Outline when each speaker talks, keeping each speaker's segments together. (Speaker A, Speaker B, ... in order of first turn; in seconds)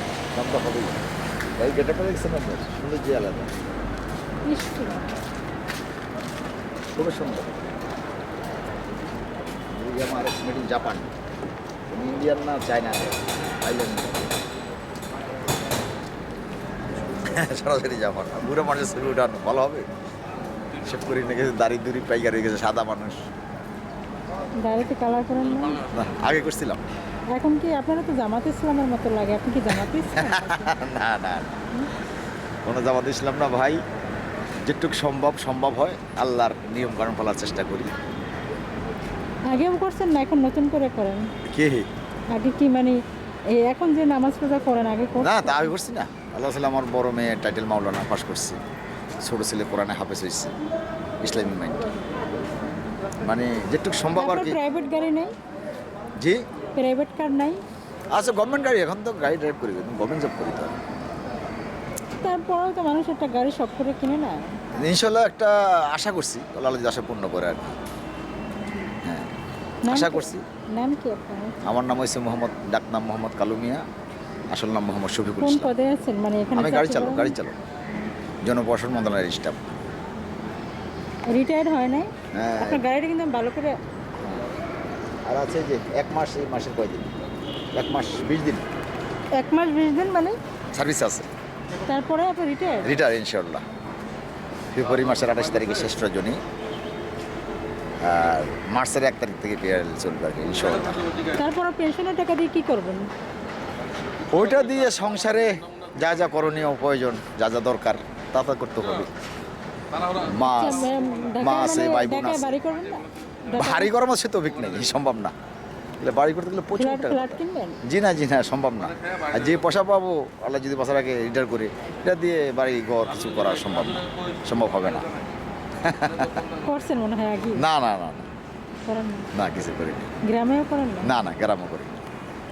Speaker A: 0.3-1.0, 1.6-3.5, 6.9-7.8, 9.7-11.1, 11.9-14.3, 17.1-19.9, 20.8-23.2, 25.9-26.8, 30.1-31.6, 32.6-33.8, 34.6-37.9, 41.5-41.9, 45.2-48.6, 49.2-50.5, 51.2-51.9, 53.2-54.6, 58.1-60.7, 64.8-67.7, 69.0-69.3, 69.9-70.4, 71.6-73.8, 74.5-75.7, 76.5-77.5, 78.4-79.6, 82.3-82.8, 85.3-87.1, 87.7-88.7, 90.7-91.3, 92.8-93.6, 94.7-96.4, 98.0-101.2, 104.3-109.1, 110.2-110.8, 111.4-112.5, 113.5-115.3, 116.0-125.1, 125.8-126.5, 127.5-128.3, 129.3-130.1, 131.0-132.0
Speaker B: 4.5-5.1, 24.6-25.9, 27.3-30.8, 39.5-41.3, 42.3-43.0, 43.5-45.7, 54.1-55.3, 56.8-57.6, 62.2-64.3, 69.8-71.5, 75.4-77.3, 81.3-83.8, 89.3-90.4, 91.8-93.0, 101.2-103.1, 110.3-113.9, 116.8-117.8, 126.6-127.6, 128.8-129.3, 130.2-131.1